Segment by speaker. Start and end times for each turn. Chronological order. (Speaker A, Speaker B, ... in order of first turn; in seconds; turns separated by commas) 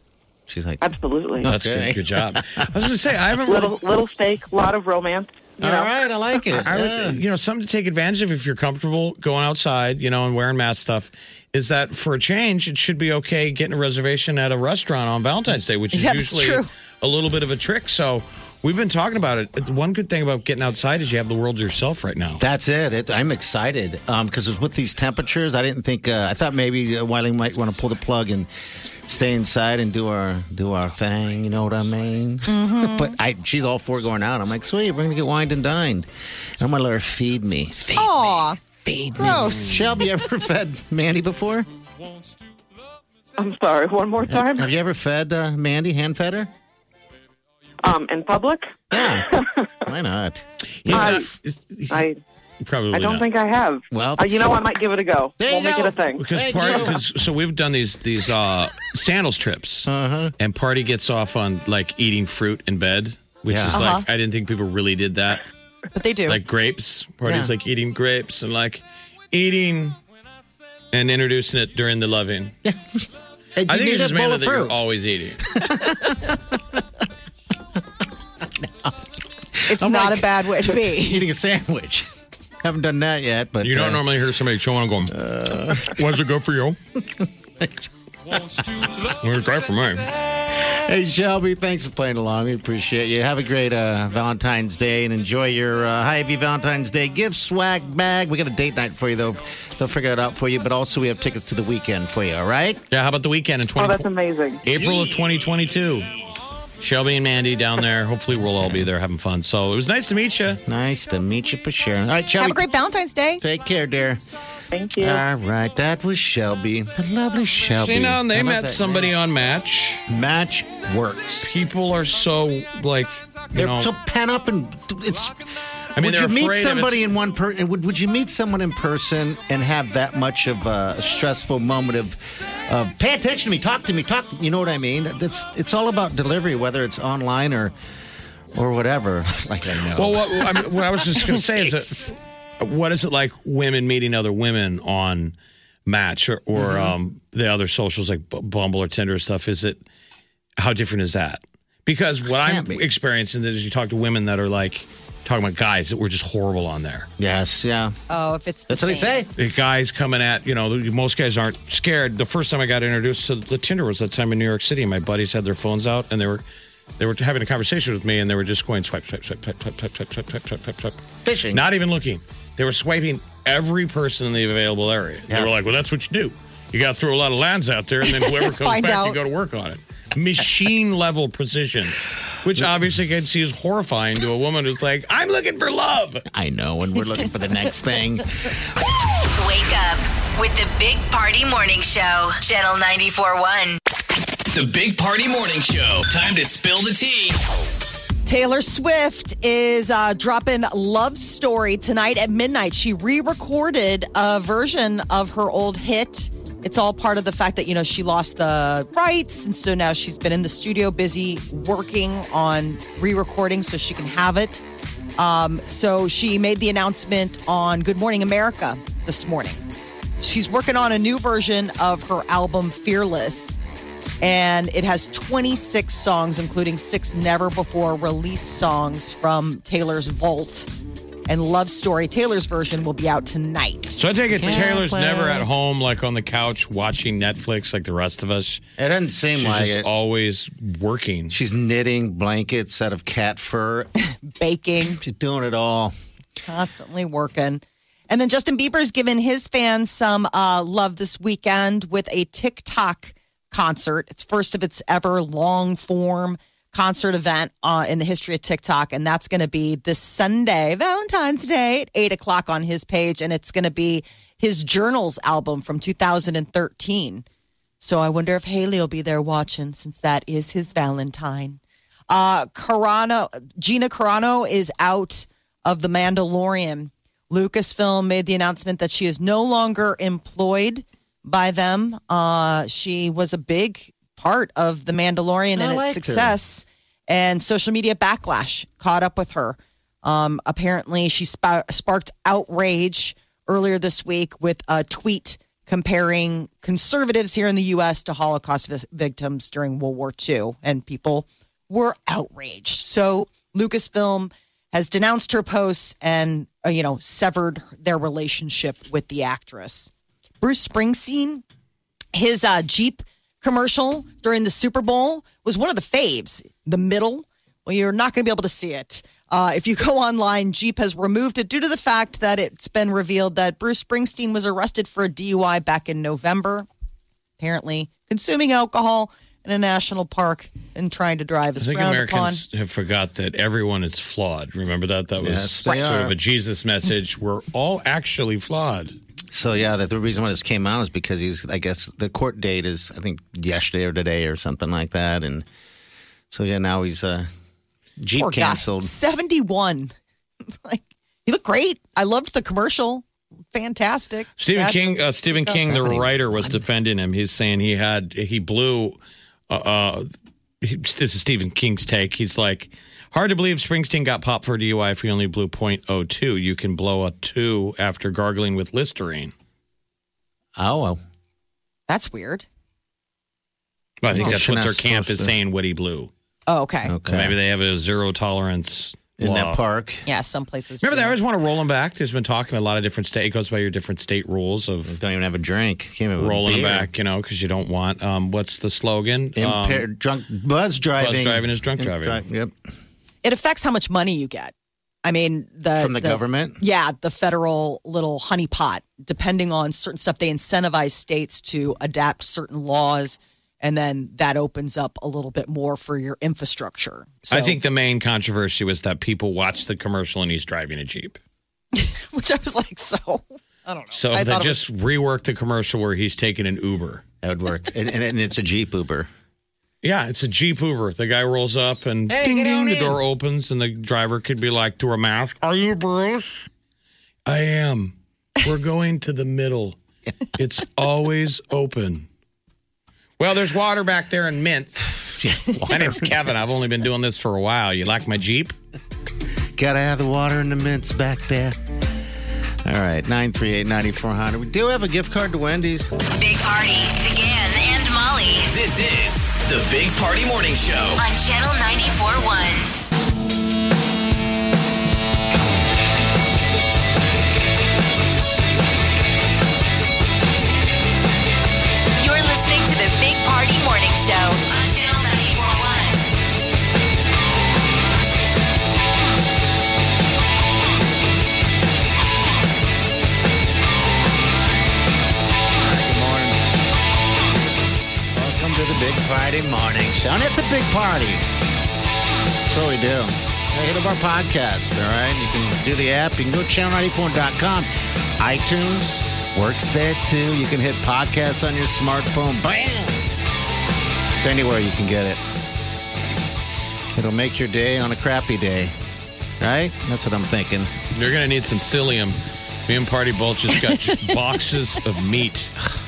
Speaker A: 0.5-0.8, Speaker B: 0.8-1.5, Speaker A: 1.4-2.6, Speaker C: 1.4-3.7, Speaker B: 3.5-5.9, Speaker A: 5.6-7.2, Speaker C: 6.5-22.4, Speaker D: 15.9-16.7, Speaker A: 22.4-28.5, Speaker A: 29.1-41.7, Speaker D: 32.5-33.1, Speaker D: 37.9-38.6, Speaker D: 39.2-39.8, Speaker B: 43.4-44.7, Speaker A: 44.3-46.5, Speaker B: 47.8-49.7, Speaker A: 48.9-49.3, Speaker A: 49.8-51.3, Speaker C: 50.8-52.0, Speaker B: 50.9-51.2, Speaker B: 51.9-52.2, Speaker C: 52.6-53.3, Speaker B: 52.9-56.2, Speaker A: 53.9-54.5, Speaker A: 55.4-57.0, Speaker C: 56.2-59.9, Speaker A: 59.9-60.3, Speaker C: 60.4-65.4, Speaker A: 63.5-63.9, Speaker D: 63.7-64.0, Speaker D: 65.9-66.4, Speaker C: 66.3-70.0, Speaker A: 67.2-67.5, Speaker C: 70.9-72.5, Speaker A: 72.6-74.8, Speaker C: 73.7-75.5, Speaker A: 75.5-76.8, Speaker A: 78.4-79.0, Speaker A: 79.5-82.1, Speaker D: 79.7-81.3, Speaker A: 82.6-84.1, Speaker C: 83.6-86.8, Speaker A: 85.1-86.0, Speaker A: 87.0-87.9, Speaker C: 89.2-90.1, Speaker A: 90.5-102.8, Speaker C: 102.9-104.0, Speaker B: 103.8-104.6, Speaker C: 104.6-106.1, Speaker A: 104.8-105.1, Speaker C: 106.8-110.6, Speaker A: 108.6-108.9, Speaker A: 110.7-112.7, Speaker D: 112.4-113.4, Speaker A: 113.4-114.2, Speaker B: 114.7-115.2, Speaker A: 115.0-119.1, Speaker C: 117.8-120.0, Speaker A: 120.1-121.5, Speaker C: 121.4-123.9, Speaker A: 123.5-137.7, Speaker C: 126.0-127.0, Speaker A: 138.5-141.7, Speaker C: 139.9-145.3, Speaker C: 145.8-149.8, Speaker A: 146.5-146.9, Speaker C: 150.6-157.1, Speaker A: 152.4-152.8, Speaker A: 157.2-157.9, Speaker D: 158.1-159.2, Speaker A: 158.7-159.3, Speaker C: 159.4-166.4, Speaker C: 167.0-171.0, Speaker A: 171.2-171.6, Speaker C: 171.5-186.2, Speaker A: 175.3-175.5, Speaker D: 178.1-179.2, Speaker A: 186.3-188.6, Speaker E: 189.4-193.8, Speaker F: 194.5-197.4, Speaker D: 198.2-214.6, Speaker D: 215.2-219.6, Speaker D: 220.2-223.6, Speaker D: 224.2-230.7, Speaker D: 231.3-234.0, Speaker C: 234.0-238.6, Speaker A: 234.3-235.5, Speaker A: 238.8-239.9, Speaker C: 239.3-241.3, Speaker A: 241.3-243.9, Speaker D: 244.2-245.0, Speaker A: 244.8-245.9, Speaker D: 246.4-267.2, Speaker D: 267.8-311.4, Speaker A: 285.5-286.4, Speaker D: 312.1-326.7, Speaker D: 327.4-332.4, Speaker C: 331.6-338.9, Speaker A: 335.2-336.1, Speaker D: 335.6-336.0, Speaker A: 339.3-345.4, Speaker A: 346.3-347.3, Speaker A: 348.0-348.9, Speaker D: 348.2-349.9, Speaker D: 350.4-355.6, Speaker C: 354.4-359.0, Speaker A: 355.5-356.6, Speaker C: 359.5-360.1, Speaker C: 360.6-369.3, Speaker A: 370.6-371.0, Speaker D: 371.9-372.4, Speaker C: 374.0-376.1, Speaker A: 374.1-375.3, Speaker D: 376.5-376.9, Speaker A: 376.9-377.4, Speaker C: 377.1-379.6, Speaker A: 379.2-380.0, Speaker D: 380.1-381.1, Speaker C: 380.8-384.9, Speaker A: 384.9-386.9, Speaker C: 386.2-389.9, Speaker A: 389.4-392.5, Speaker C: 391.0-392.2, Speaker D: 393.2-394.5, Speaker D: 395.0-407.6, Speaker A: 395.8-396.6, Speaker C: 407.3-411.2, Speaker D: 411.7-414.6, Speaker C: 413.9-417.0, Speaker A: 417.2-419.1, Speaker C: 419.8-426.4, Speaker A: 422.1-423.0, Speaker C: 427.2-429.8, Speaker C: 430.4-432.1, Speaker C: 433.2-435.2, Speaker A: 435.2-436.6, Speaker C: 435.7-438.5, Speaker A: 439.6-441.6, Speaker A: 442.6-445.9, Speaker E: 446.1-448.6, Speaker F: 448.5-451.0, Speaker E: 451.0-452.7, Speaker E: 461.9-466.0, Speaker A: 475.6-476.4, Speaker A: 478.1-481.2, Speaker A: 482.4-493.1, Speaker A: 494.2-495.2, Speaker A: 496.9-498.7, Speaker A: 499.4-500.7, Speaker C: 500.9-505.5